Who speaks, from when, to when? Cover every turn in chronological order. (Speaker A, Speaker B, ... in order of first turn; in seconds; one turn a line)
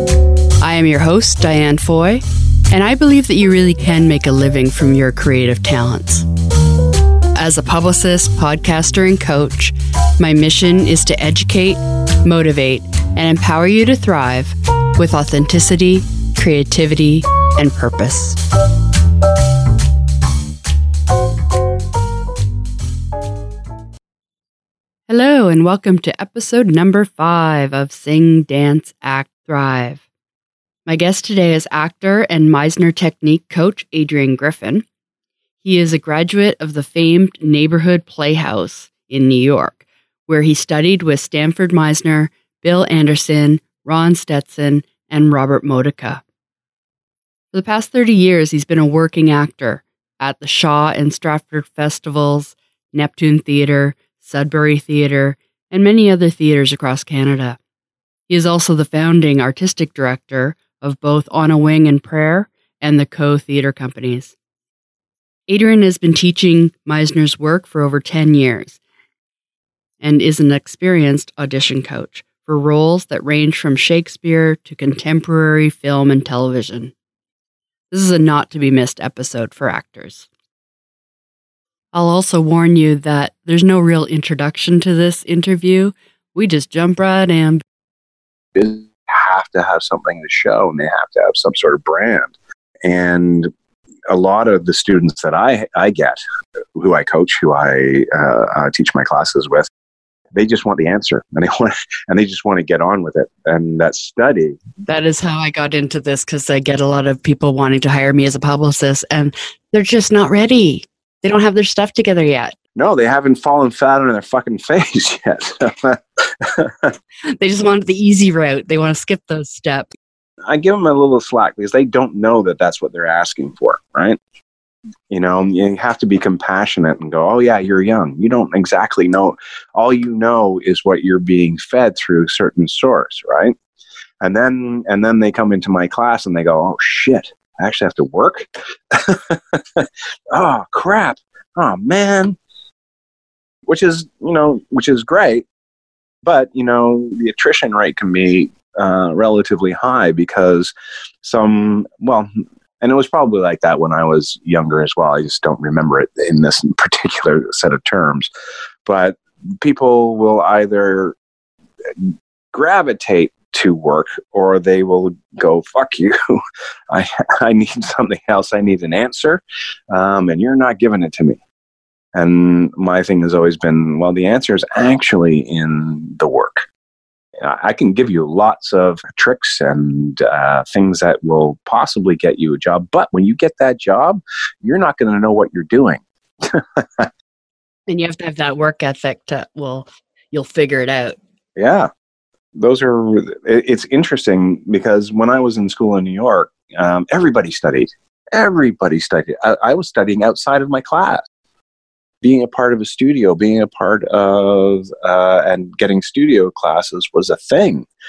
Speaker A: 0.6-6.2
Speaker A: 7.4-18.4
Speaker A: 25.1-30.0
Speaker A: 30.9-34.9
Speaker A: 35.6-46.2
Speaker A: 47.5-57.6
Speaker A: 58.3-64.3
Speaker A: 65.5-68.8
Speaker A: 70.0-76.9
Speaker A: 77.9-80.3
Speaker A: 81.9-87.6
Speaker B: 88.5-92.3
Speaker B: 92.8-93.5
Speaker B: 94.1-96.2
Speaker B: 96.8-99.7
Speaker B: 100.3-104.6
Speaker A: 104.9-112.5
Speaker B: 112.8-116.9
Speaker A: 117.4-119.9
Speaker B: 120.5-124.2
Speaker B: 125.1-133.6
Speaker B: 134.2-142.4
Speaker B: 143.7-145.5
Speaker B: 146.2-150.7
Speaker B: 151.2-152.3
Speaker B: 152.8-158.3
Speaker B: 158.8-161.2
Speaker B: 161.9-166.4
Speaker B: 166.9-171.4
Speaker B: 172.2-176.7
Speaker B: 177.4-187.1
Speaker A: 187.9-191.2
Speaker B: 191.6-191.9
Speaker B: 192.6-201.2
Speaker B: 202.2-207.9